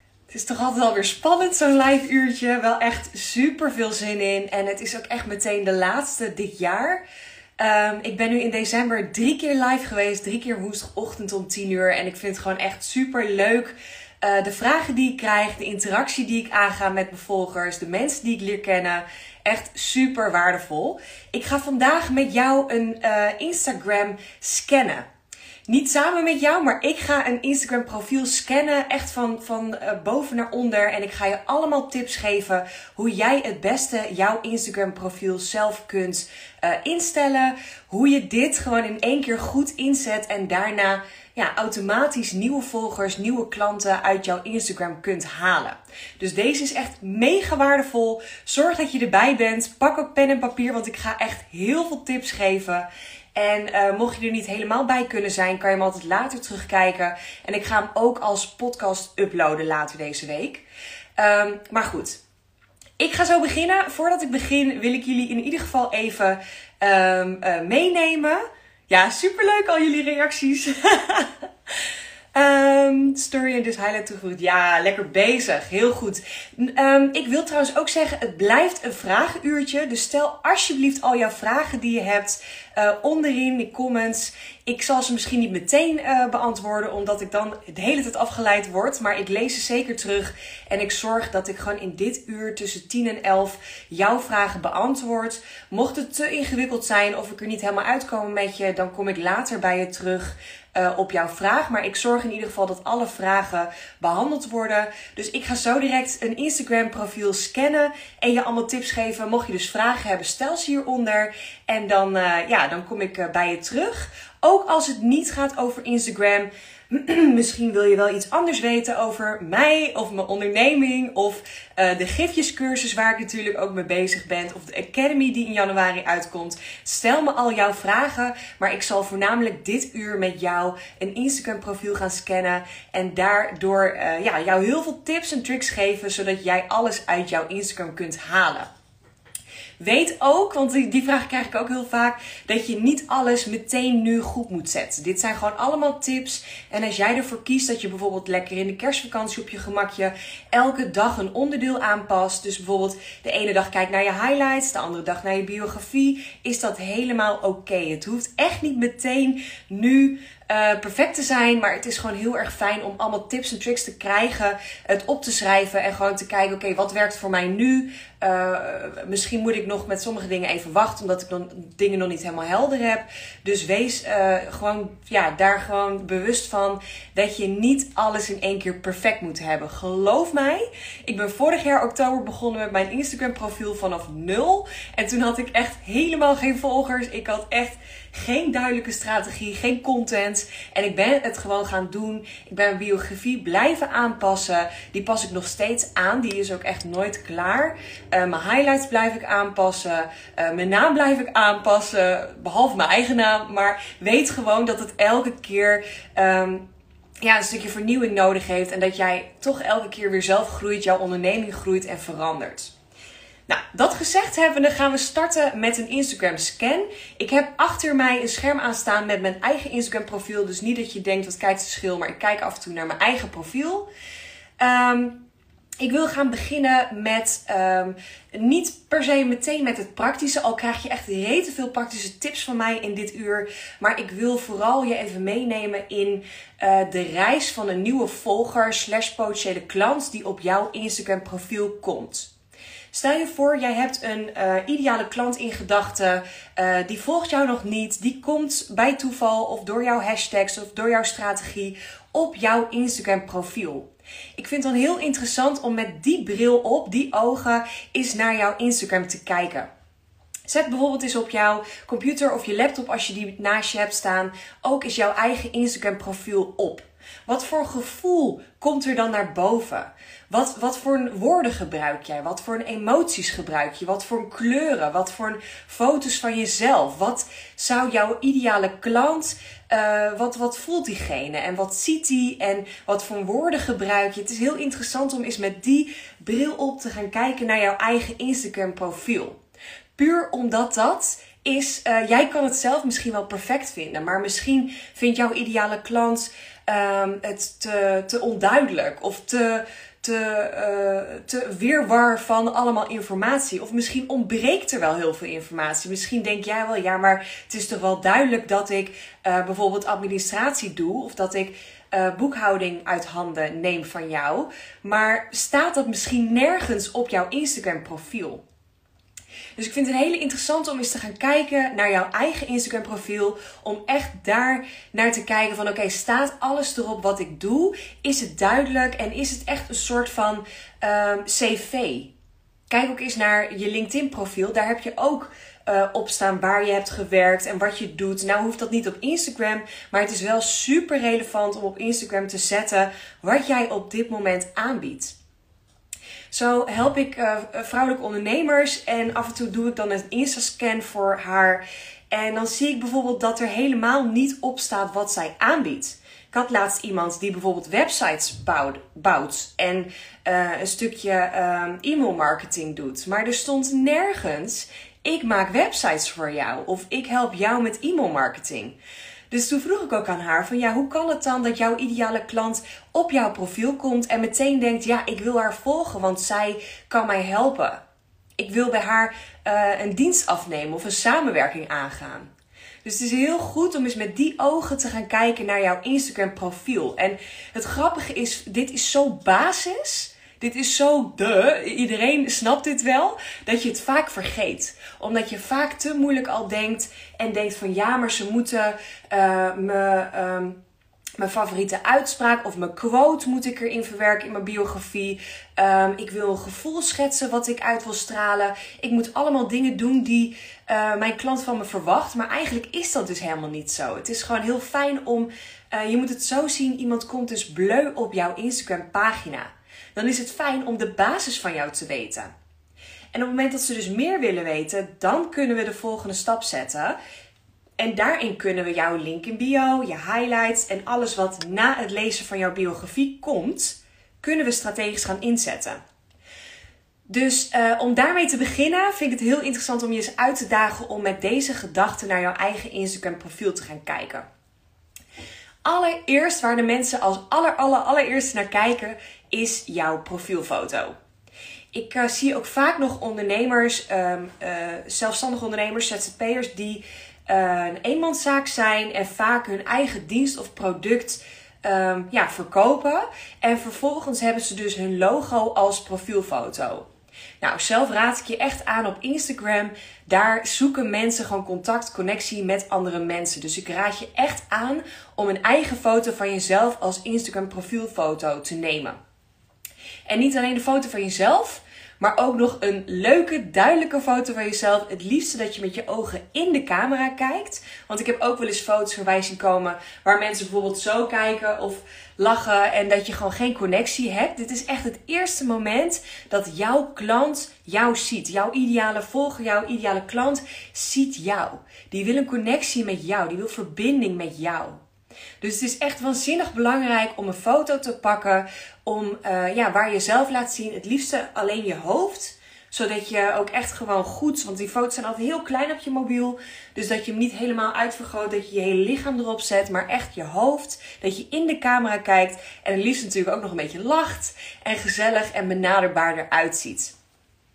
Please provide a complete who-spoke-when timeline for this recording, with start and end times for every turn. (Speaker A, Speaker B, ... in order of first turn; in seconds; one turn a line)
Speaker A: 0.3-7.0
Speaker A: 7.6-25.1
Speaker A: 25.7-60.6
Speaker A: 61.2-62.2
Speaker A: 63.0-71.3
Speaker A: 72.3-138.7
Speaker A: 139.8-206.6
Speaker A: 207.2-212.7
Speaker A: 213.5-223.9
Speaker A: 224.6-225.2
Speaker A: 225.8-242.3
Speaker A: 242.9-259.7
Speaker A: 260.5-289.4
Speaker A: 290.0-318.4
Speaker A: 319.6-332.1
Speaker A: 332.7-345.1
Speaker A: 346.3-368.8
Speaker A: 369.3-377.8
Speaker A: 378.4-382.3
Speaker A: 382.8-400.6
Speaker A: 401.2-422.3
Speaker A: 423.1-426.9
Speaker A: 427.8-435.8
Speaker A: 437.1-444.2
Speaker A: 445.6-450.9
Speaker A: 451.7-466.9
Speaker A: 467.4-479.0
Speaker A: 480.1-504.8
Speaker A: 505.4-526.9